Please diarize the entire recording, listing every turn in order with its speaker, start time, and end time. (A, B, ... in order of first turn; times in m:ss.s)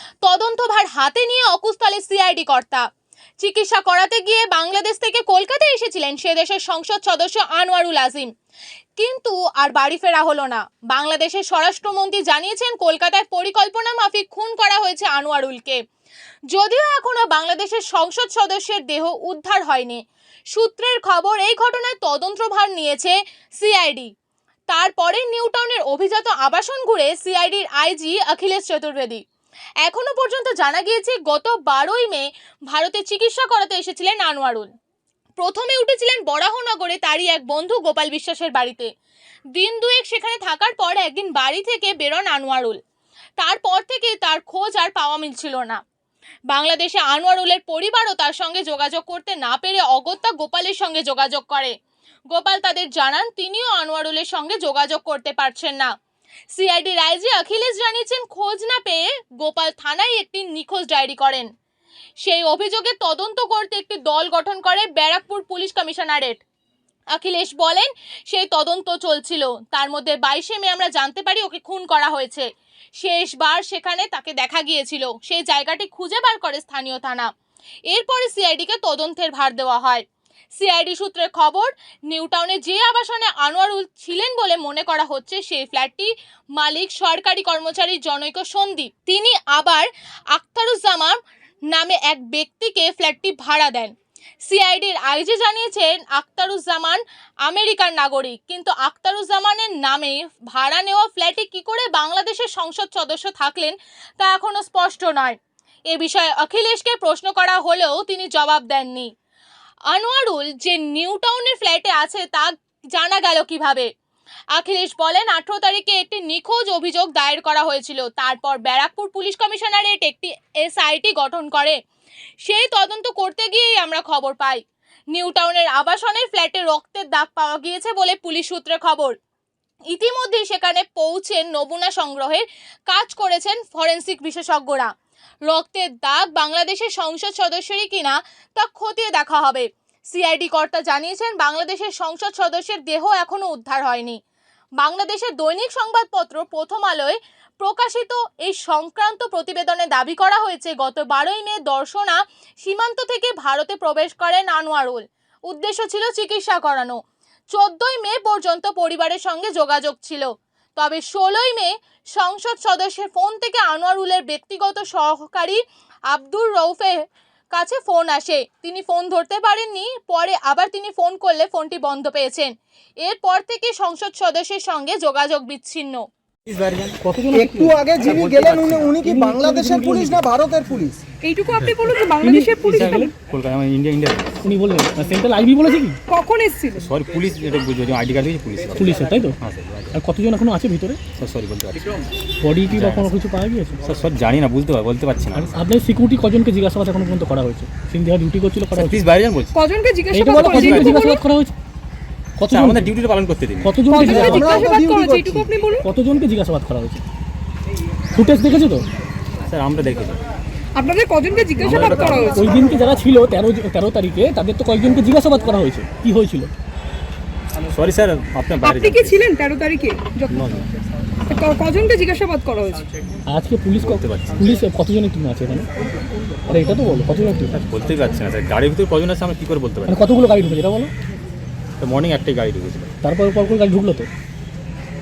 0:00.2-0:02.8 A
0:03.4-0:08.3 A
0:09.0-0:15.8 A
0:16.5-0:20.0 A
0:20.5-0:24.1 A
0:24.7-0:29.2 A
0:29.8-0:34.7 A
0:35.4-0:38.9 A
0:39.5-0:42.8 A
0:43.4-0:45.8 A
0:46.5-0:51.7 A
0:52.3-0:55.9 A
0:56.5-1:01.5 A
1:02.2-1:06.4 A
1:07.1-1:12.5 A
1:13.0-1:17.3 A
1:17.9-1:20.0 A
1:20.6-1:31.2 A
1:31.7-1:33.9 A
1:34.4-1:45.4 A
1:45.9-1:49.1 A
1:49.9-1:53.9 A
1:54.5-2:01.8 A
2:02.4-2:04.6 A
2:05.1-2:09.2 A
2:09.9-2:14.9 A
2:15.5-2:24.2 A
2:24.8-2:37.0 A
2:37.5-2:45.6 A
2:46.1-2:47.0 A
2:47.5-2:52.5 A
2:53.0-2:56.0 A
2:56.5-2:57.0 B
2:57.0-2:57.8 C
2:57.3-3:01.0 D
2:58.0-2:59.0 B
2:59.0-3:00.2 C
3:01.2-3:03.1 E
3:02.2-3:03.1 C
3:02.7-3:04.4 B
3:04.4-3:06.0 C
3:06.1-3:06.9 E
3:06.8-3:10.0 B
3:08.8-3:09.4 C
3:09.9-3:11.0 C
3:11.2-3:12.0 B
3:12.4-3:13.8 C
3:12.7-3:13.2 B
3:13.8-3:15.6 B
3:15.3-3:19.0 C
3:18.7-3:19.5 B
3:19.5-3:21.2 E
3:20.1-3:21.5 C
3:20.5-3:21.0 B
3:22.4-3:22.9 C
3:22.5-3:23.9 B
3:23.6-3:24.5 C
3:23.9-3:25.9 E
3:23.9-3:25.5 D
3:25.8-3:27.0 C
3:28.1-3:28.8 C
3:29.4-3:30.2 B
3:30.8-3:32.4 E
3:31.6-3:32.4 B
3:31.9-3:32.6 D
3:32.3-3:36.5 C
3:37.7-3:39.3 B
3:38.6-3:40.4 E
3:40.3-3:40.7 B
3:41.3-3:42.8 E
3:43.3-3:45.7 C
3:43.8-3:44.5 B
3:46.5-3:47.6 C
3:47.6-3:50.0 B
3:49.9-3:50.9 C
3:51.8-3:52.9 B
3:53.0-3:54.1 C